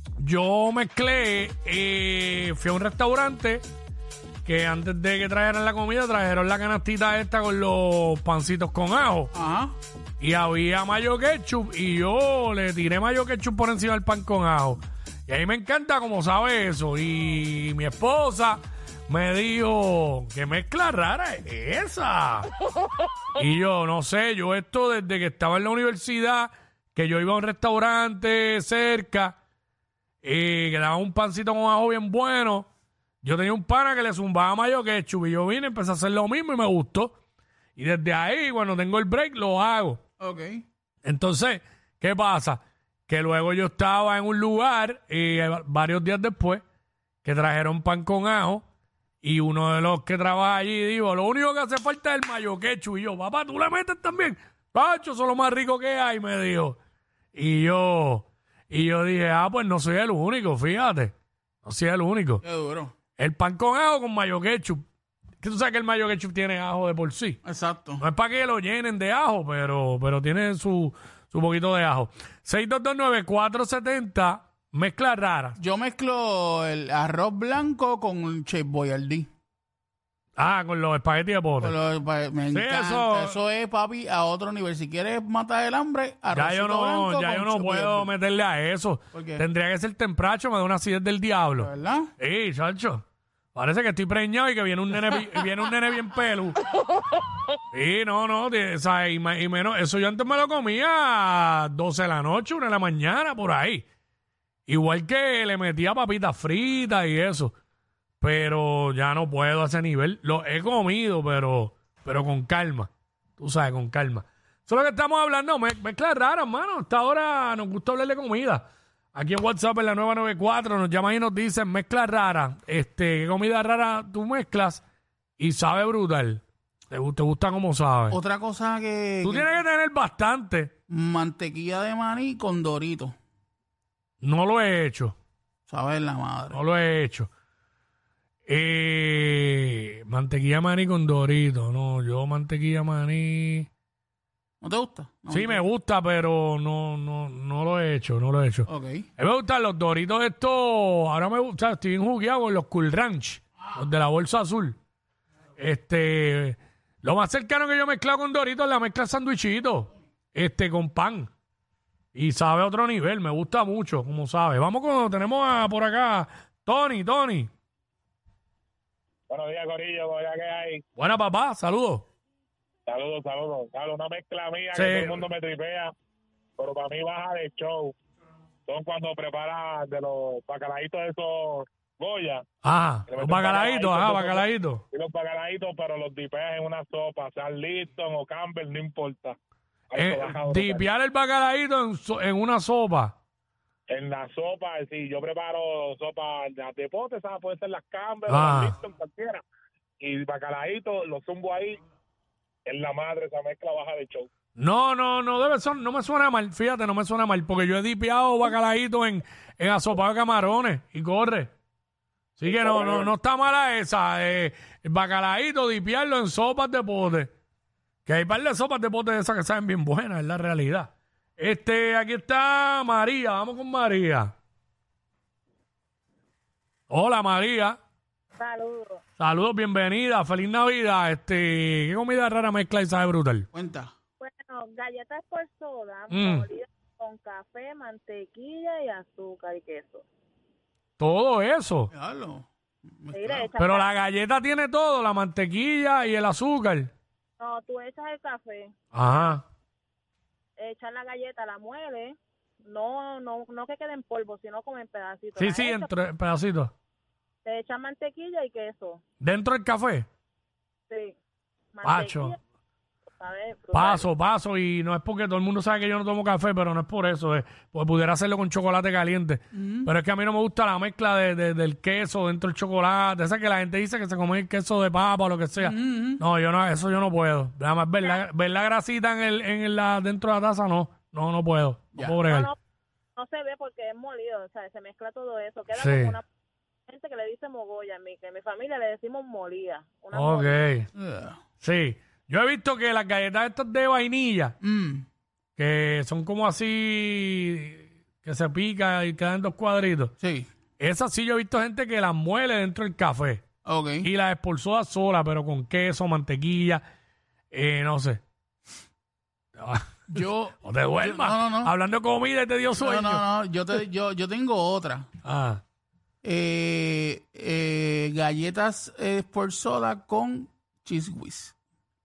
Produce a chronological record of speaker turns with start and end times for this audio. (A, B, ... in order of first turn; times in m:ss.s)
0:00.2-0:03.6 A
0:04.4-0:09.3 A
0:09.3-0:09.8 B
0:10.2-0:22.5 A
0:23.4-0:29.4 A
0:30.2-0:32.7 A
0:33.2-0:37.2 A
0:37.8-0:40.0 A
0:40.2-0:40.6 B
0:41.0-0:46.6 A
0:47.2-0:48.6 A
0:49.2-0:56.8 A
0:57.3-1:01.1 A
1:01.6-1:02.4 A
1:02.4-1:02.9 B
1:03.2-1:04.8 A
1:05.4-1:07.4 A
1:07.4-1:08.0 B
1:08.0-1:15.6 A
1:15.6-1:19.3 B
1:20.4-1:21.8 A
1:21.6-1:28.1 B
1:22.5-1:23.4 A
1:26.3-1:33.0 A
1:29.1-1:29.4 B
1:31.6-1:32.1 B
1:33.6-1:36.6 A
1:37.7-1:43.9 A
1:44.7-1:47.6 A
1:48.2-2:04.8 A
2:05.4-2:08.2 A
2:08.1-2:09.5 B
2:09.2-2:10.7 A
2:10.9-2:13.2 B
2:14.2-2:15.2 A
2:15.7-2:16.6 B
2:16.5-2:17.3 A
2:18.5-2:23.7 A
2:24.6-2:25.6 B
2:25.3-2:28.7 A
2:28.7-2:29.1 B
2:29.2-2:34.8 A
2:35.6-2:41.3 A
2:42.2-2:47.5 A
2:49.3-2:50.8 C
2:51.0-2:52.1 A
2:52.9-2:55.9 C
2:54.8-2:55.2 A
2:56.6-2:57.9 C
2:58.7-3:02.4 C
3:02.6-3:04.8 A
3:03.1-3:09.4 C
3:09.9-3:10.8 C
3:10.0-3:13.2 A
3:13.9-3:19.4 C
3:18.3-3:18.8 A
3:20.0-3:21.8 C
3:22.7-3:24.3 C
3:24.6-3:31.5 A
3:32.4-3:37.3 A
3:32.5-3:33.1 C
3:38.1-3:44.3 A
3:46.9-3:47.8 A
3:48.4-3:49.0 D
3:49.2-3:53.5 A
3:53.5-3:53.9 B
3:54.2-4:00.0 D
3:56.1-3:56.5 A
4:01.0-4:01.9 A
4:01.9-4:02.5 B
4:03.0-4:03.5 B
4:03.1-4:03.9 D
4:03.6-4:06.9 A
4:07.4-4:08.7 D
4:08.9-4:09.4 A
4:10.6-4:15.9 D
4:15.4-4:16.7 A
4:17.4-4:19.0 D
4:19.2-4:20.1 A
4:20.9-4:21.2 D
4:21.7-4:22.4 D
4:21.8-4:22.4 A
4:23.2-4:24.1 D
4:23.7-4:42.5 A
4:29.5-4:29.9 B
4:35.6-4:36.2 B
4:42.3-4:42.6 D
4:43.2-4:46.2 D
4:45.8-4:46.2 A
4:46.9-4:50.6 D
4:50.1-4:50.9 A
4:50.9-4:51.4 B
4:51.6-4:54.6 A
4:54.6-4:55.1 B
4:55.6-5:00.1 A
5:00.2-5:00.5 B
5:00.8-5:03.4 A
5:03.6-5:04.1 B
5:04.0-5:06.8 A
5:07.5-5:08.2 A
5:09.6-5:13.2 A
5:10.1-5:11.7 B
5:12.8-5:15.1 B
5:15.2-5:15.6 A
5:16.2-5:21.6 B